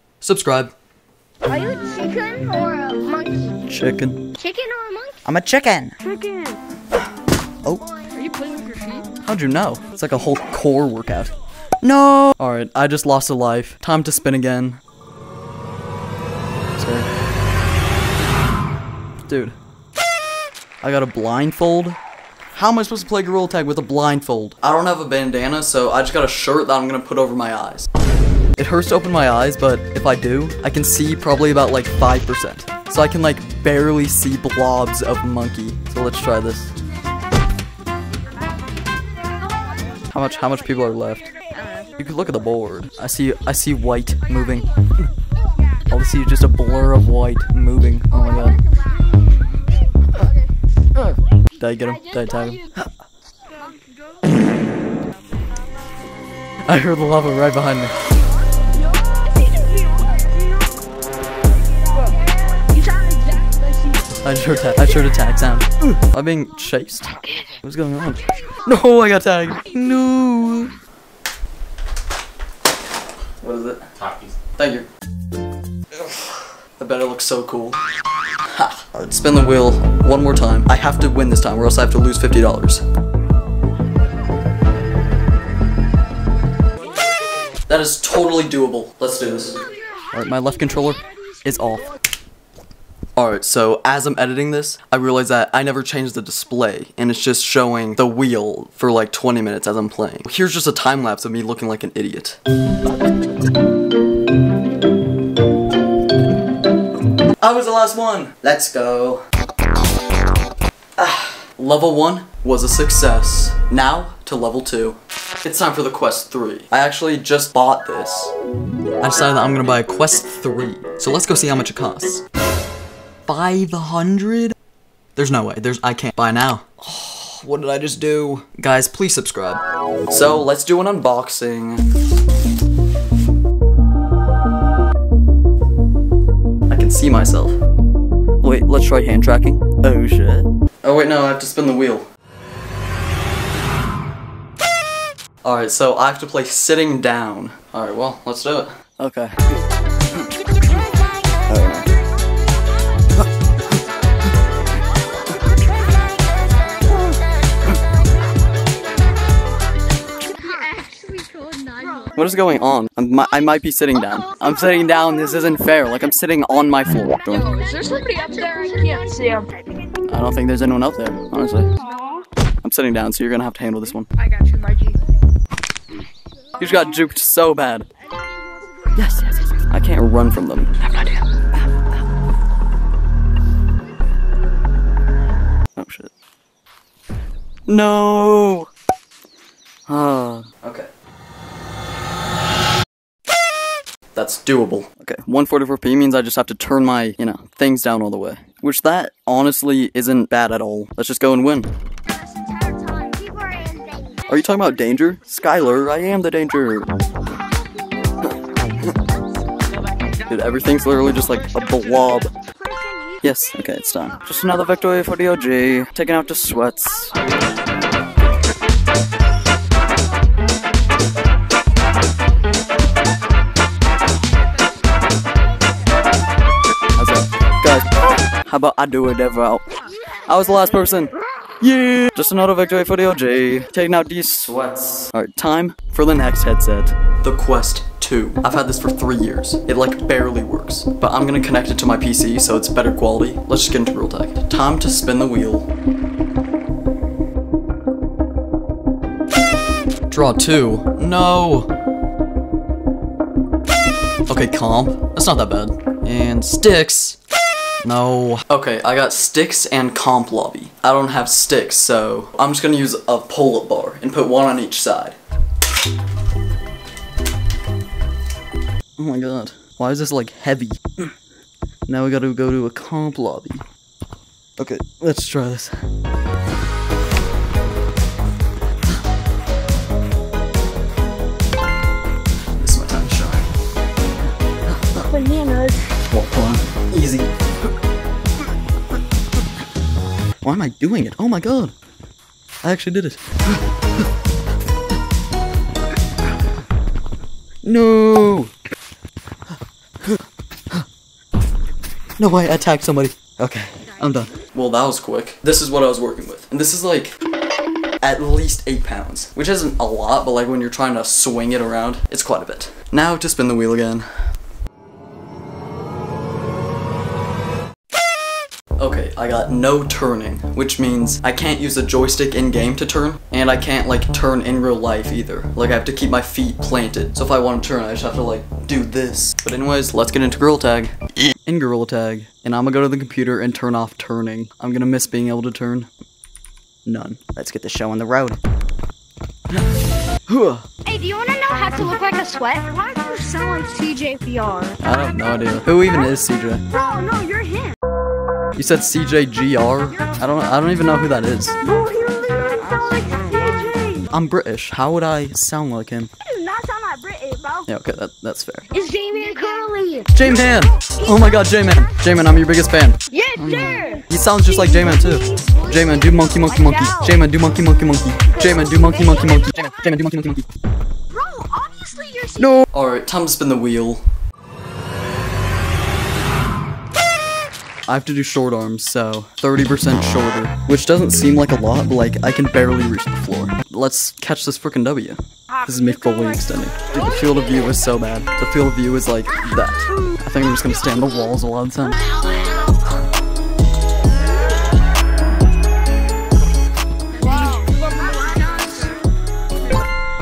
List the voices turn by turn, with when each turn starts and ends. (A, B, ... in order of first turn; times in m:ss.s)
0:00.2-0:00.7 A
0:01.4-0:03.6 B
0:03.6-0:04.4 A
0:04.4-0:05.2 B
0:05.2-0:06.0 A
0:06.1-0:06.6 B
0:08.2-0:09.0 C
0:09.2-0:14.8 A
0:16.8-0:17.1 A
0:19.2-0:19.5 A
0:20.8-0:22.0 A
0:22.5-0:27.9 A
0:28.6-0:36.7 A
0:40.1-0:41.3 A
0:42.0-0:44.7 A
0:45.9-0:48.6 A
0:51.6-0:52.9 A
0:56.7-0:58.0 A
0:59.0-1:00.4 B
1:01.9-1:03.7 B
1:04.2-1:10.8 A
1:13.4-1:13.9 A
1:14.5-1:14.9 A
1:16.8-1:17.8 A
1:18.4-1:22.8 A
1:27.7-1:31.9 A
1:33.2-1:42.4 A
1:47.4-1:49.2 A
1:51.0-1:58.3 A
1:59.0-2:02.2 A
2:03.3-2:04.6 A
2:05.2-2:11.8 A
2:16.7-2:17.6 A
2:18.4-2:22.1 A
2:25.4-2:29.6 A
2:31.5-2:31.9 A
2:40.2-2:42.1 B
2:41.4-2:41.8 C
2:42.1-2:47.5 A
2:47.5-2:49.3 C
2:47.5-2:49.5 B
2:50.1-2:51.7 A
2:52.6-2:54.1 A
2:54.2-2:55.0 C
2:56.6-2:57.9 A
2:58.9-3:01.8 A
3:05.8-3:06.1 A
3:07.7-3:08.7 A
3:09.9-3:10.9 A
3:14.1-3:21.7 A
3:22.3-3:24.3 B
3:24.3-3:26.9 A
3:28.2-3:29.0 A
3:30.2-3:32.3 A
3:32.4-3:33.4 B
3:33.2-3:37.2 A
3:46.9-3:47.9 A
3:48.4-3:49.6 A
3:50.2-4:05.7 A
4:10.1-4:11.7 A
4:14.3-4:17.2 A
4:17.8-4:25.2 A
4:29.0-4:31.0 A
4:31.9-4:33.6 A
4:34.6-4:35.9 A
4:42.6-4:43.5 A
4:44.7-4:45.1 A
4:45.0-4:45.9 B
4:46.1-4:47.4 A
4:50.4-4:51.7 A
4:52.6-4:53.6 A
4:57.6-4:58.5 A
5:02.2-5:07.2 A
5:08.0-5:14.1 A
5:18.8-5:35.9 A
5:36.8-5:38.4 A
5:40.3-5:40.7 A
5:40.8-5:44.8 B
5:44.8-5:46.6 A
5:46.7-5:47.8 B
5:48.6-5:51.6 A
5:51.6-5:54.1 B
5:54.1-5:56.1 A
5:56.2-5:57.7 B
5:57.6-5:58.7 A
5:58.7-6:00.1 B
6:00.1-6:10.5 A
6:03.1-6:05.7 B
6:06.6-6:07.1 B
6:11.1-6:12.6 B
6:12.4-6:14.0 A
6:17.9-6:32.1 A
6:37.2-6:38.9 B